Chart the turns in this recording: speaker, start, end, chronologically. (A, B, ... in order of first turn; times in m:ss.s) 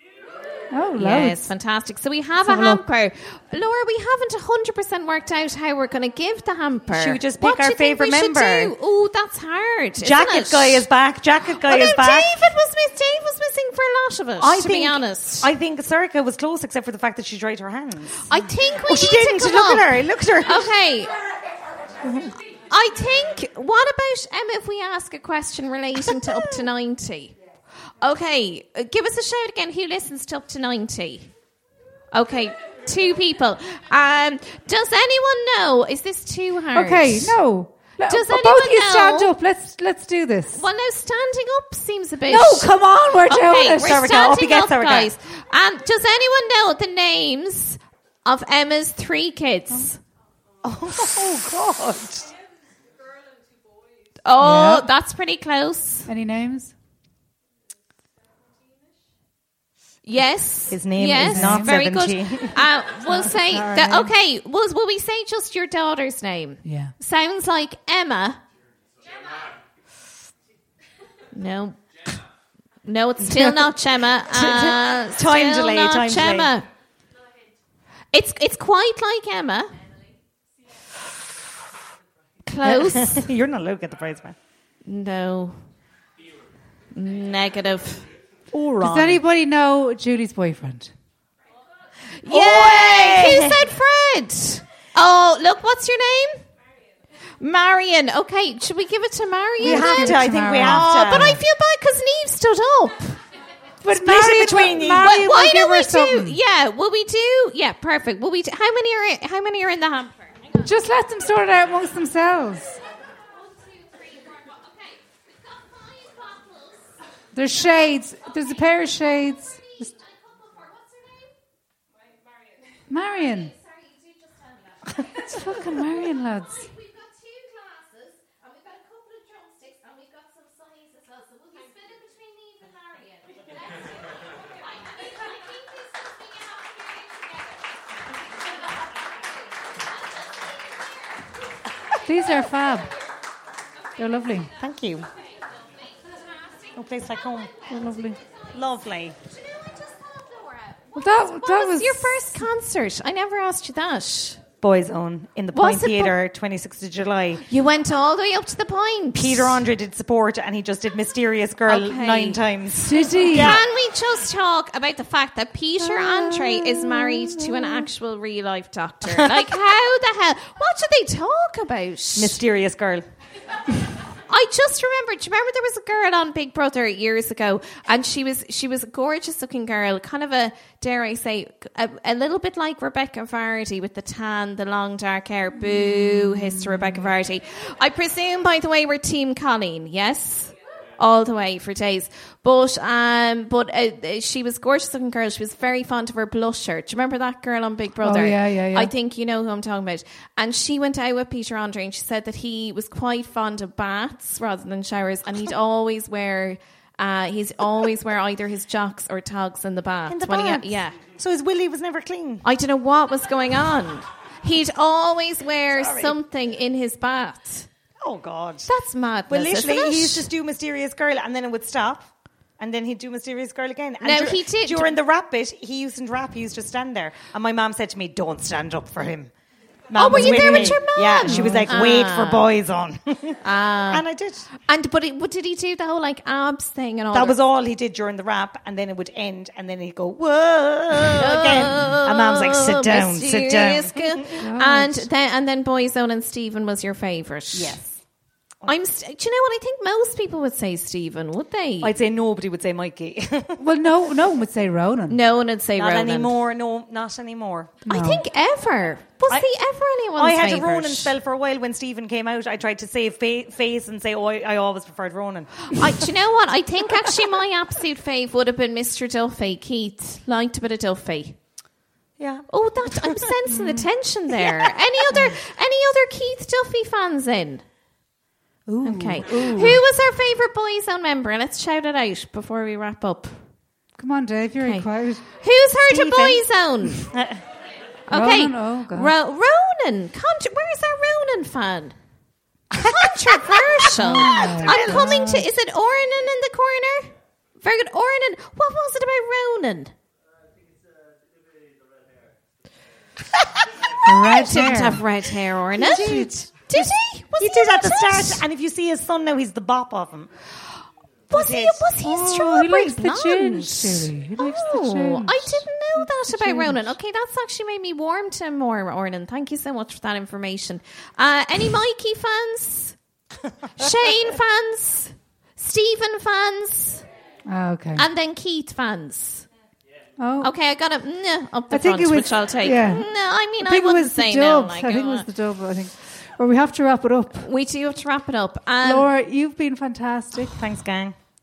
0:00.7-0:01.5 A
0:01.0-0:10.9 B
0:02.4-0:02.8 A
0:06.9-0:08.7 C
0:10.0-0:12.3 C
0:11.7-0:15.5 B
0:14.4-0:18.3 C
0:18.3-0:19.9 B
0:18.8-0:20.7 C
0:20.5-0:21.1 B
0:22.0-0:22.3 C
0:22.7-0:27.4 B
0:28.0-0:31.3 B
0:32.1-0:37.4 B
0:36.7-0:40.6 A
0:38.1-0:39.3 B
0:40.5-0:50.0 B
0:42.3-0:44.0 A
0:43.8-0:45.1 C
0:50.6-0:52.3 C
0:54.2-0:56.1 B
0:54.4-0:54.9 A
0:56.1-0:56.7 A
1:00.0-1:08.4 B
1:00.7-1:02.6 C
1:01.2-1:01.8 A
1:03.1-1:04.1 A
1:06.6-1:06.9 A
1:11.3-1:11.8 B
1:12.8-1:16.7 B
1:13.2-1:13.7 C
1:14.3-1:16.5 C
1:18.1-1:19.7 B
1:22.4-1:23.2 B
1:22.6-1:24.4 C
1:24.8-1:25.6 B
1:26.9-1:28.1 B
1:28.5-1:29.2 C
1:28.8-1:30.9 A
1:32.2-1:36.4 B
1:32.3-1:33.6 C
1:37.4-1:43.2 B
1:39.6-1:41.4 A
1:39.6-1:41.4 C
1:43.8-1:46.4 A
1:43.9-1:45.2 C
1:45.0-1:50.4 B
1:50.6-1:52.8 A
1:57.3-1:59.9 A
2:02.9-2:03.6 A
2:05.2-2:06.7 A
2:22.0-2:22.9 A
2:24.0-2:24.5 A
2:24.6-2:25.1 C
2:26.8-2:27.6 C
2:27.7-2:28.2 A
2:28.5-2:29.2 C
2:30.9-2:34.4 B
2:31.0-2:32.3 A
2:34.6-2:37.4 C
2:35.5-2:36.2 B
2:37.5-2:39.6 B
2:39.2-2:43.6 C
2:41.7-2:42.4 B
2:42.8-2:43.6 A
2:43.3-2:52.4 B
2:45.9-2:47.4 A
2:49.1-2:49.4 C
2:52.2-2:53.0 C
2:54.3-3:31.0 B
3:05.5-3:07.1 A
3:18.0-3:18.9 A
3:30.1-3:32.4 C
3:32.4-3:37.7 B
3:35.7-3:36.2 C
3:38.0-3:38.7 C
3:38.7-3:40.3 B
3:39.3-3:49.3 C
3:44.0-3:44.9 B
3:49.9-3:54.5 C
3:50.0-3:52.4 B
3:50.1-3:51.7 A
3:53.4-3:54.0 B
3:54.6-3:57.4 B
3:57.1-4:04.2 C
4:01.2-4:07.8 B
4:04.4-4:05.1 A
4:07.5-4:08.0 C
4:08.7-4:11.9 B
4:11.8-4:13.6 C
4:13.6-4:15.2 A
4:15.1-4:16.4 B
4:15.8-4:17.9 C
4:17.9-4:18.2 A
4:17.9-4:21.1 B
4:20.2-4:26.0 C
4:25.7-4:31.4 B
4:32.2-4:33.2 C
4:32.5-4:37.6 B
4:33.5-4:33.9 A
4:38.7-4:39.3 A
4:38.8-4:43.4 B
4:39.2-4:39.8 C
4:44.0-4:45.3 A
4:44.6-4:47.1 B
4:45.9-4:46.4 C
4:47.0-4:47.4 C
4:48.1-4:52.0 B
4:48.1-4:49.1 A
4:52.8-4:53.6 C
4:52.8-4:59.9 B
4:54.0-4:55.5 A
4:54.3-4:55.2 C
5:04.0-5:05.0 A
5:04.2-5:08.4 B
5:05.8-5:10.3 C
5:05.8-5:06.3 A
5:11.3-5:23.0 B
5:11.3-5:13.6 C
5:12.1-5:16.9 A
5:23.8-5:27.0 B
5:27.5-5:28.1 A
5:28.0-5:29.5 B
5:30.2-5:30.5 A
5:30.4-5:35.3 B
5:31.7-5:33.1 A
5:33.6-5:37.5 A
5:37.4-5:39.1 B
5:38.8-5:40.6 A
5:40.5-5:41.2 C